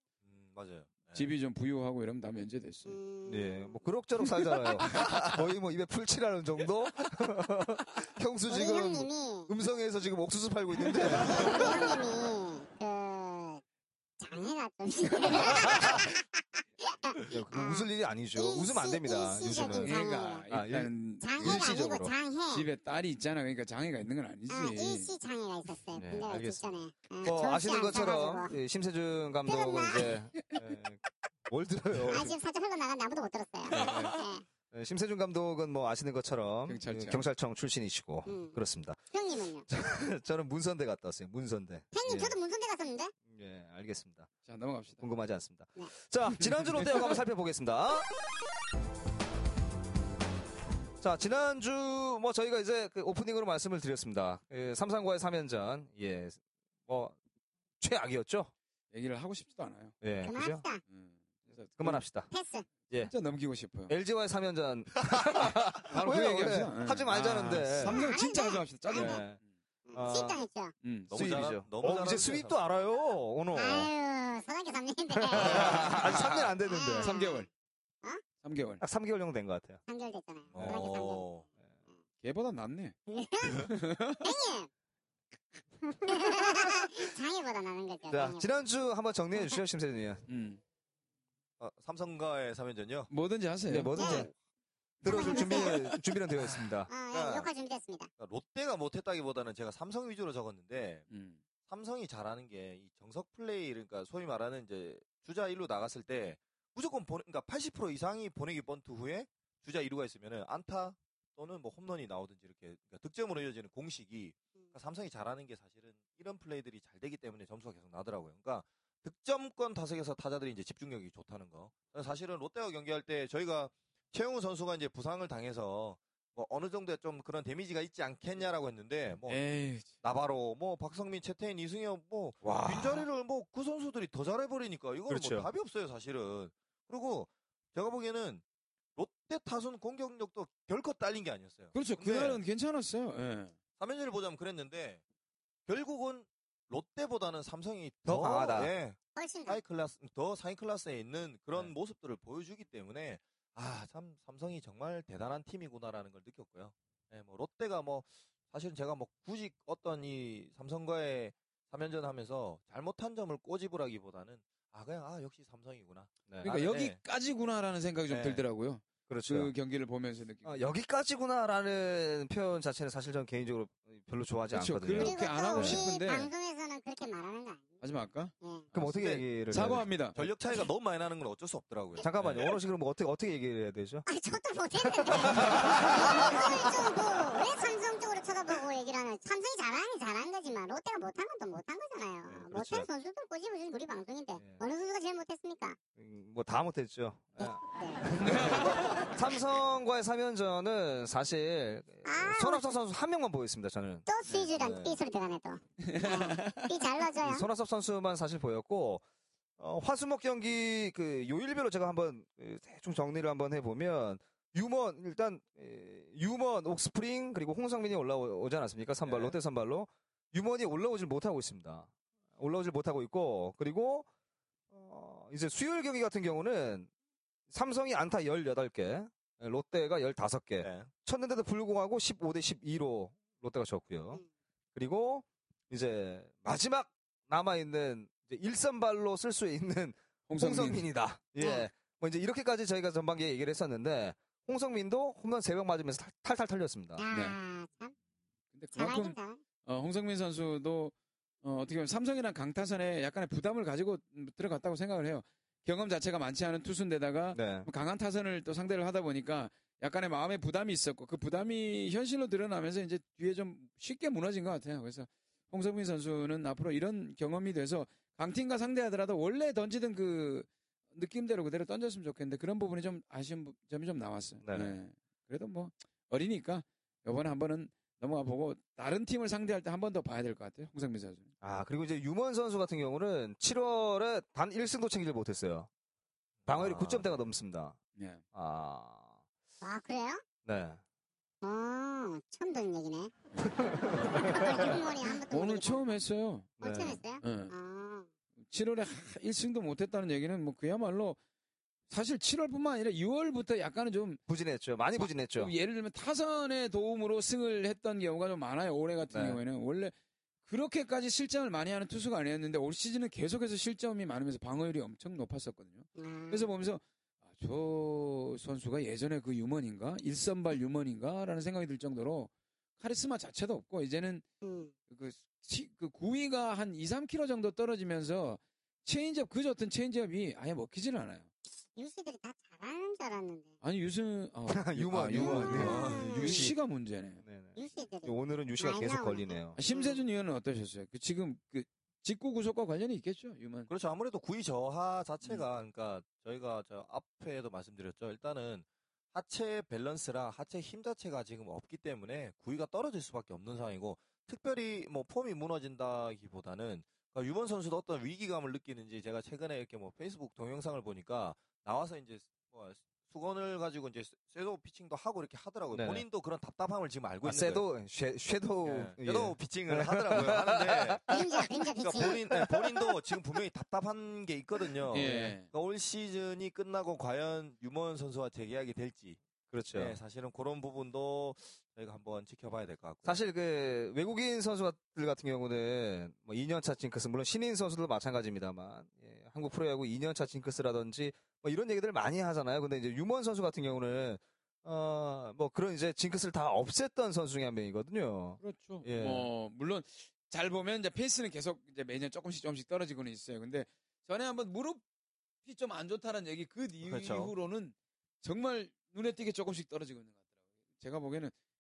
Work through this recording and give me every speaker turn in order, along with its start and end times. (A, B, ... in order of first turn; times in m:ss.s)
0:00.2-0:01.3 A
0:01.1-0:03.0 B
0:02.8-0:03.8 C
0:03.2-0:11.8 D
0:08.5-0:09.5 C
0:10.8-0:11.8 B
0:11.2-0:13.6 C
0:14.2-0:20.4 C
0:15.3-0:16.1 D
0:17.3-0:22.1 D
0:19.8-0:21.9 B
0:21.2-0:22.7 C
0:22.5-0:25.1 B
0:24.5-0:28.6 C
0:25.9-0:32.4 D
0:29.5-0:30.1 C
0:32.1-0:34.4 C
0:33.7-0:34.2 B
0:33.7-0:34.1 D
0:34.7-0:39.1 D
0:36.7-0:37.2 B
0:38.2-0:38.6 C
0:39.1-0:39.6 C
0:39.7-0:42.4 D
0:41.9-0:43.1 C
0:43.2-0:44.3 D
0:44.4-0:45.0 B
0:45.0-0:48.1 D
0:51.0-0:57.2 D
0:57.8-0:58.5 D
0:58.9-0:59.9 B
1:00.0-1:00.6 D
1:00.2-1:00.8 C
1:00.9-1:02.0 B
1:01.8-1:02.3 D
1:02.3-1:02.7 C
1:03.0-1:03.9 B
1:03.9-1:08.0 D
1:05.9-1:09.4 B
1:07.8-1:09.2 C
1:08.9-1:09.4 D
1:09.9-1:10.7 C
1:09.9-1:10.4 D
1:10.8-1:11.4 B
1:11.1-1:12.6 A
1:11.1-1:13.9 D
1:13.5-1:16.0 C
1:15.2-1:17.1 D
1:15.3-1:16.5 A
1:16.7-1:17.5 C
1:17.0-1:17.5 B
1:18.4-1:18.8 B
1:18.8-1:19.8 D
1:19.9-1:21.3 C
1:20.5-1:21.4 A
1:20.5-1:20.8 D
1:22.2-1:22.9 B
1:23.1-1:24.7 C
1:23.6-1:24.3 B
1:26.0-1:28.4 C
1:28.1-1:30.2 D
1:30.3-1:30.6 B
1:31.6-1:33.1 A
1:33.1-1:34.2 B
1:33.7-1:34.3 D
1:33.9-1:34.3 C
1:35.0-1:36.6 B
1:35.0-1:36.9 D
1:35.0-1:35.9 C
1:36.9-1:38.1 C
1:37.1-1:37.5 A
1:38.2-1:41.1 A
1:41.1-1:41.4 B
1:41.7-2:09.4 A
2:09.3-2:09.9 B
2:10.0-2:18.4 A
2:12.4-2:13.0 D
2:15.1-2:15.5 D
2:19.0-2:22.4 A
2:21.7-2:23.5 B
2:23.8-2:25.0 A
2:25.7-2:47.0 A
2:28.0-2:28.7 D
2:29.2-2:29.6 C
2:46.3-2:46.5 D
2:46.4-2:50.7 B
2:48.1-2:48.4 A
2:49.1-2:49.5 D
2:50.4-2:55.9 D
2:54.5-2:56.3 B
2:54.9-2:57.8 C
2:57.8-2:58.3 B
2:58.4-2:58.7 C
2:58.7-2:59.9 D
2:58.8-2:59.2 A
2:59.5-3:00.2 B
3:00.1-3:02.5 A
3:02.0-3:04.0 D
3:04.0-3:15.8 C
3:05.0-3:06.4 D
3:12.3-3:12.9 D
3:14.4-3:14.6 D
3:16.0-3:24.9 D
3:17.4-3:18.1 C
3:18.2-3:18.9 B
3:22.0-3:22.6 C
3:24.0-3:27.4 C
3:25.8-3:26.7 B
3:27.2-3:29.0 D
3:29.6-3:44.1 D
3:39.0-3:39.4 A
3:44.7-3:46.9 D
3:47.5-3:54.2 D
3:50.6-3:50.9 A
3:54.8-4:07.0 D
4:00.3-4:00.9 B
4:01.4-4:01.7 C
4:07.0-4:07.9 C
4:07.1-4:07.4 B
4:08.5-4:41.3 B
4:08.8-4:09.4 C
4:17.3-4:17.7 D
4:34.4-4:34.8 D
4:41.4-4:45.7 D
4:46.4-4:47.1 A
4:46.5-4:47.8 D
4:48.0-4:48.2 B
4:48.3-4:49.1 D
4:49.6-4:50.2 C
4:50.4-4:50.8 D
4:51.4-4:53.1 C
4:53.4-4:54.8 D
4:54.2-4:55.9 C
4:55.3-4:56.5 B
4:56.6-4:57.0 D
4:56.6-4:58.1 C
4:57.2-4:57.5 B
4:58.5-5:01.2 B
5:01.9-5:04.2 B
5:04.3-5:05.5 D
5:05.0-5:16.8 B
5:09.1-5:09.4 D
5:16.0-5:16.5 C
5:17.3-5:24.2 B
5:24.4-5:24.7 C
5:24.9-5:31.3 B
5:31.6-5:33.5 C
5:33.6-5:37.2 B
5:34.5-5:36.5 D
5:35.2-5:36.5 C
5:35.5-5:36.4 A
5:37.2-5:39.6 D
5:37.6-5:40.0 C
5:39.6-5:43.7 B
5:43.7-6:07.6 A
6:05.7-6:06.0 D
6:07.2-6:11.2 D
6:08.6-6:19.2 A
6:11.1-6:12.2 C
6:12.3-6:12.7 D
6:14.9-6:15.5 B
6:19.5-6:20.0 D
6:19.7-6:23.2 A
6:23.0-6:39.3 D
6:38.4-6:44.8 B
6:45.4-6:50.2 B
6:46.8-6:47.3 A
6:50.8-6:51.3 B